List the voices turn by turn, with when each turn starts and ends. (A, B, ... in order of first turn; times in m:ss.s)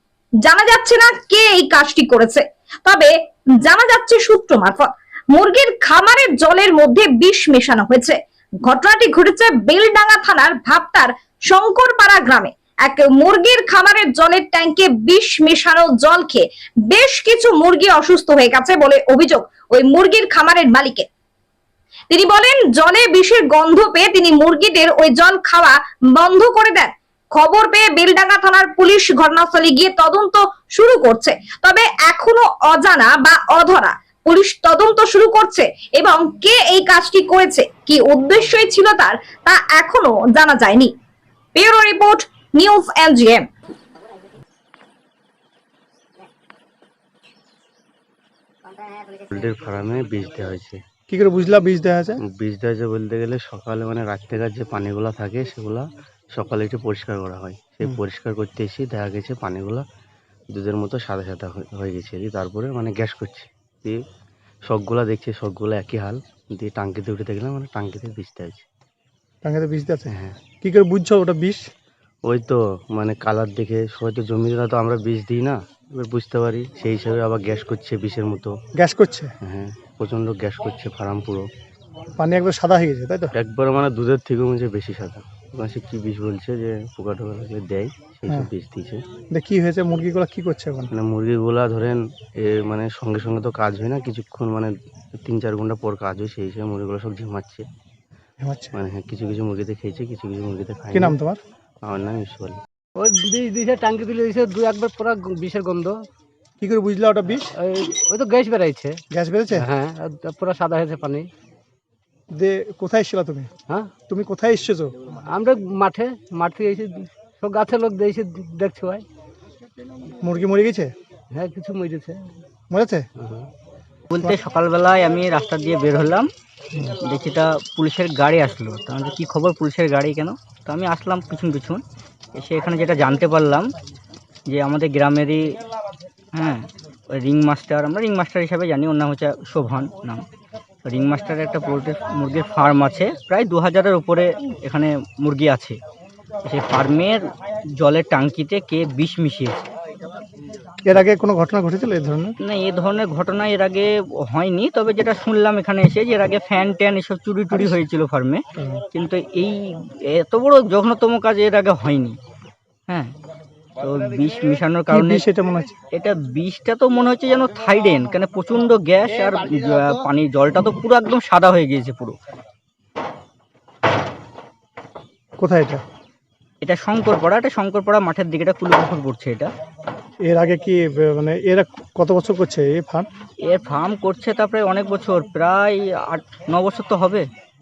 0:00.4-0:21.1 A
0:22.1-0:40.9 A
0:41.6-0:43.4 A
0:49.2-0:50.8 B
0:51.1-0:52.2 C
0:52.3-0:59.8 B
1:00.5-1:04.0 B
1:04.7-1:08.7 B
1:09.4-1:11.6 C
1:10.1-1:10.4 B
1:12.2-1:18.5 B
1:18.8-1:19.3 C
1:19.4-1:21.5 B
1:22.2-1:23.3 C
1:23.4-1:29.0 B
1:29.3-1:30.9 C
1:30.9-1:37.7 B
1:38.4-1:38.8 C
1:38.7-1:41.2 B
1:40.9-1:41.4 C
1:41.8-1:42.6 B
1:43.0-1:46.0 D
1:46.6-1:47.5 C
1:47.6-1:49.0 D
1:49.1-1:49.7 C
1:49.6-1:51.3 D
1:52.3-1:53.5 C
1:54.1-1:55.1 C
1:55.3-1:59.0 D
2:00.2-2:00.9 C
2:01.3-2:02.3 D
2:02.7-2:03.1 C
2:03.2-2:03.5 D
2:04.1-2:06.3 E
2:07.0-2:11.8 E
2:12.4-2:13.7 E
2:14.5-2:15.4 E
2:16.3-2:20.3 E
2:20.8-2:25.8 E
2:26.4-2:27.2 E
2:27.8-2:29.7 E
2:30.8-2:32.4 C
2:32.4-2:38.4 E
2:37.5-2:37.8 C
2:38.6-2:38.8 C
2:38.9-2:42.2 E
2:42.9-2:43.1 E
2:43.8-2:45.3 E
2:44.9-2:45.7 C
2:45.9-2:52.2 E
2:55.4-2:55.8 C
2:56.6-2:59.5 E
3:00.2-3:03.1 C
3:03.4-3:07.3 E